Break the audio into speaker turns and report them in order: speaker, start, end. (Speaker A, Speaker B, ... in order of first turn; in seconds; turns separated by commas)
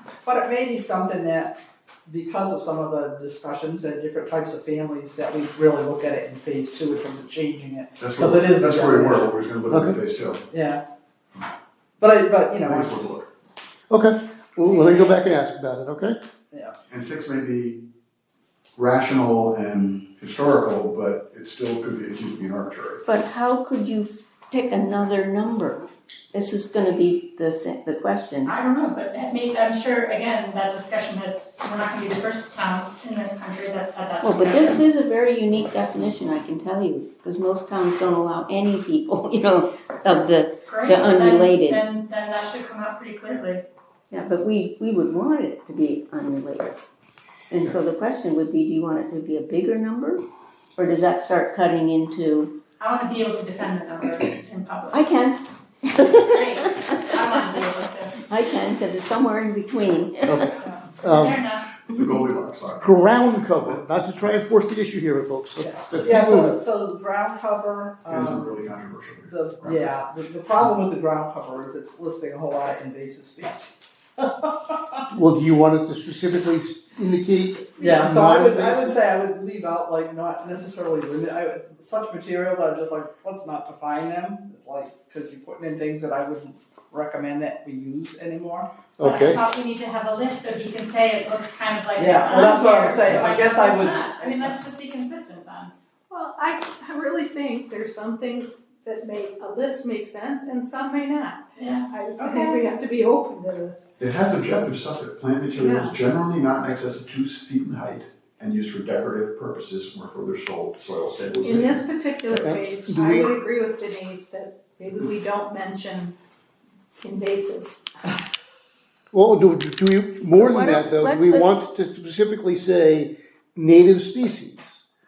Speaker A: 0.2-9.3, Speaker B: 8.0-10.4, Speaker C: 9.7-10.0, Speaker A: 10.5-10.8, Speaker A: 12.0-12.9, Speaker B: 12.6-13.3, Speaker C: 13.9-16.2, Speaker D: 14.6-15.2, Speaker B: 16.9-17.8, Speaker B: 18.8-23.0, Speaker E: 23.0-28.5, Speaker D: 28.4-34.8, Speaker E: 34.2-41.9, Speaker D: 40.6-43.6, Speaker E: 44.1-46.8, Speaker E: 47.5-50.2, Speaker E: 50.8-52.5, Speaker D: 52.8-55.1, Speaker E: 54.9-56.4, Speaker D: 56.1-58.6, Speaker E: 58.3-60.5, Speaker C: 60.3-61.4, Speaker D: 60.6-61.6, Speaker B: 61.9-63.0, Speaker C: 62.8-66.6, Speaker A: 65.6-68.6, Speaker B: 68.1-69.8, Speaker A: 69.3-75.0, Speaker C: 75.1-79.0, Speaker A: 77.8-88.7, Speaker C: 89.0-89.4, Speaker D: 89.0-95.7, Speaker A: 92.0-94.6, Speaker F: 96.1-103.9, Speaker D: 101.5-102.6, Speaker B: 104.0-111.8, Speaker F: 105.5-105.9, Speaker F: 111.4-116.1, Speaker C: 112.3-113.4, Speaker F: 117.0-117.8, Speaker C: 119.1-124.8, Speaker E: 120.3-121.7